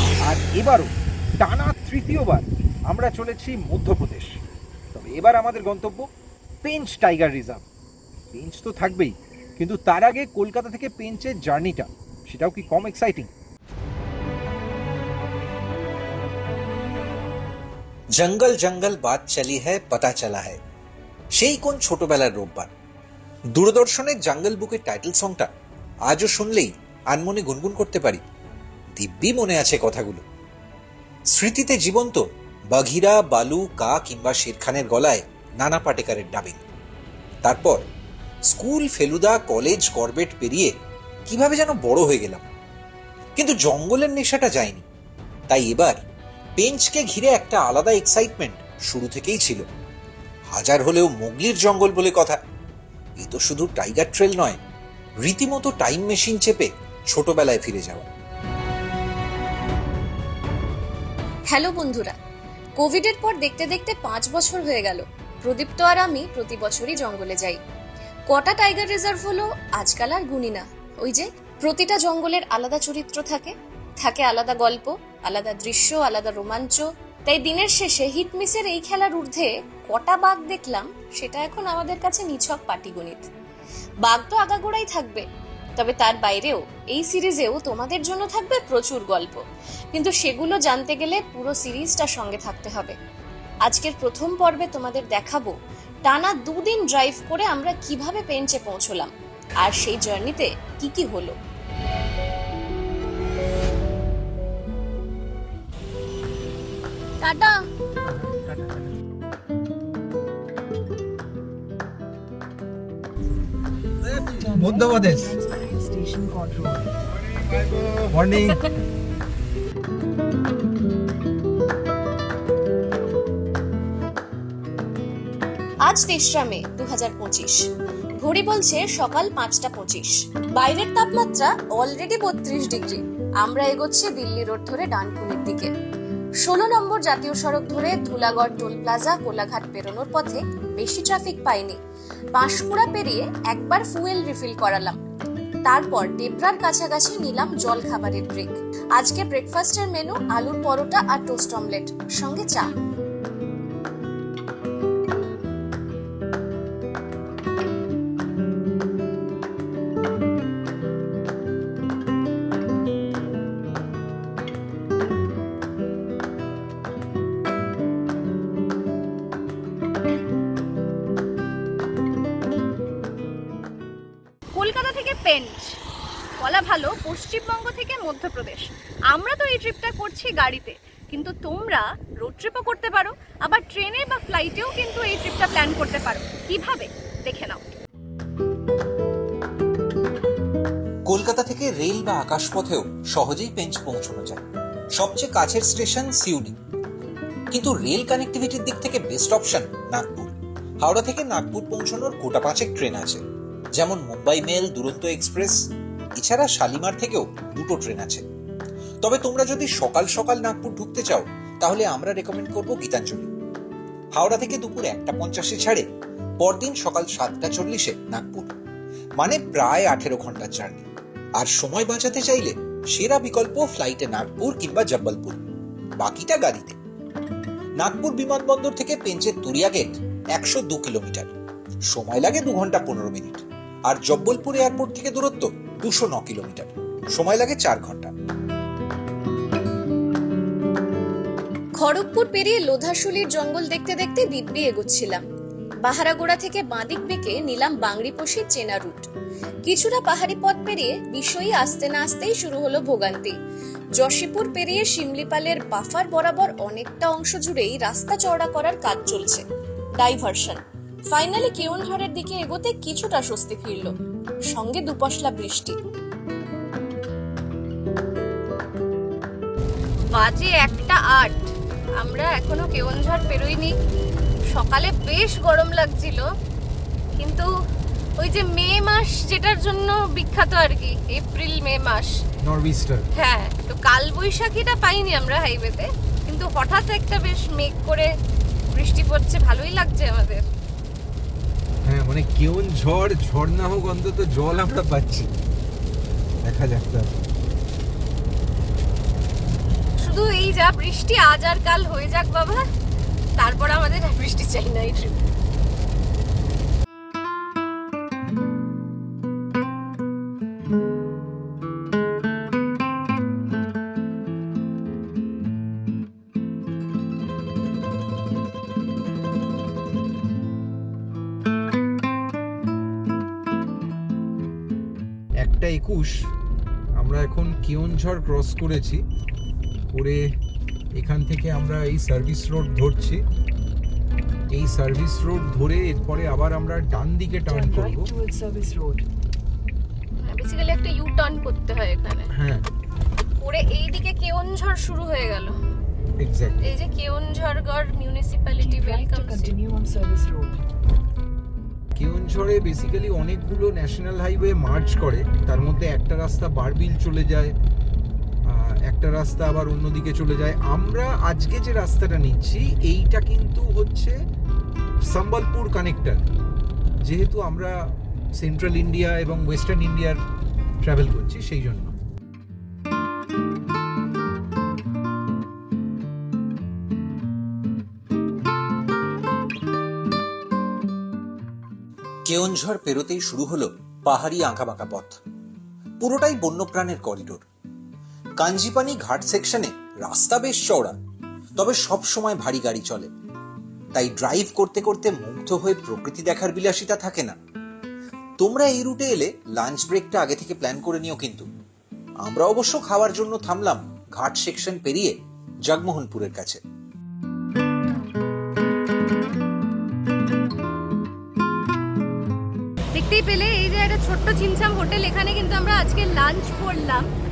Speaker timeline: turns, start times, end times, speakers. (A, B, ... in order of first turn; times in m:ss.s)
0:00.2-0:04.4 A
0:04.9-0:06.0 A
0:06.6-0:07.6 A
0:08.3-0:13.3 A
0:18.1-0:20.6 B
0:21.3-0:22.7 B
0:23.5-0:25.5 B
0:26.1-0:28.2 B
0:29.0-0:30.2 B
0:31.3-0:36.6 B
0:37.4-0:37.8 B
0:38.5-0:40.7 B
0:41.3-0:42.5 B
0:43.4-0:44.8 B
0:45.5-0:46.0 B
0:46.6-0:49.6 B
0:50.5-0:52.4 B
0:53.2-0:54.6 B
0:55.2-0:58.1 B
1:01.5-1:02.2 C
1:02.8-1:07.6 C
1:08.3-1:23.3 C
1:24.0-1:25.2 C
1:25.8-1:29.4 C
1:29.9-1:32.9 C
1:33.6-1:35.5 C
1:36.0-1:41.4 C
1:47.2-1:47.6 C
1:54.1-1:55.3 A
1:54.3-1:56.9 D
1:58.0-1:58.7 A
2:05.8-2:07.6 C
2:08.2-2:15.7 C
2:16.4-2:21.8 C
2:22.3-2:25.0 C
2:25.6-2:32.7 C
2:54.5-2:55.8 E
2:56.4-3:07.6 E
3:11.1-3:14.4 B
3:14.9-3:16.6 B
3:17.5-3:23.2 B
3:23.7-3:25.6 B
3:26.2-3:28.2 B
3:29.0-3:33.3 B
3:34.1-3:35.8 B
3:36.4-3:38.5 B
3:39.2-3:45.4 B
3:46.0-3:46.8 B
3:47.8-3:51.3 B
3:51.9-3:58.1 B
4:01.8-4:05.2 C
4:05.8-4:09.1 C
4:09.6-4:13.3 C
4:14.0-4:19.4 C
4:20.0-4:23.9 C
4:24.5-4:25.8 C
4:30.1-4:33.7 E
4:34.5-4:36.3 E
4:37.2-4:37.5 E
4:38.2-4:42.1 E
4:42.4-4:43.1 A
4:43.2-4:48.1 E
4:48.7-4:50.4 E
4:51.8-4:55.3 A
4:56.4-4:57.1 A
5:00.0-5:02.6 E
5:03.4-5:05.2 E
5:25.4-5:26.2 A
5:27.0-5:29.0 A
5:29.9-5:30.3 A
5:30.9-5:33.2 A
5:34.5-5:38.1 A
5:37.5-5:39.0 D
5:40.2-5:42.3 E
5:42.3-5:42.6 A
5:43.4-5:45.5 E
5:46.2-5:46.6 A
5:46.6-5:49.5 E
5:48.6-5:50.6 D
5:52.0-5:57.5 A
5:58.4-6:04.1 A
6:05.1-6:06.2 A
6:07.0-6:07.8 A
6:08.4-6:10.2 A
6:10.8-6:11.9 A
6:22.2-6:25.2 B
6:26.0-6:27.4 B
6:28.4-6:31.0 B
6:31.6-6:33.1 B
6:33.9-6:37.4 B
6:38.4-6:41.5 B
6:42.2-6:45.1 B
6:45.6-6:46.6 B
6:52.9-6:57.0 E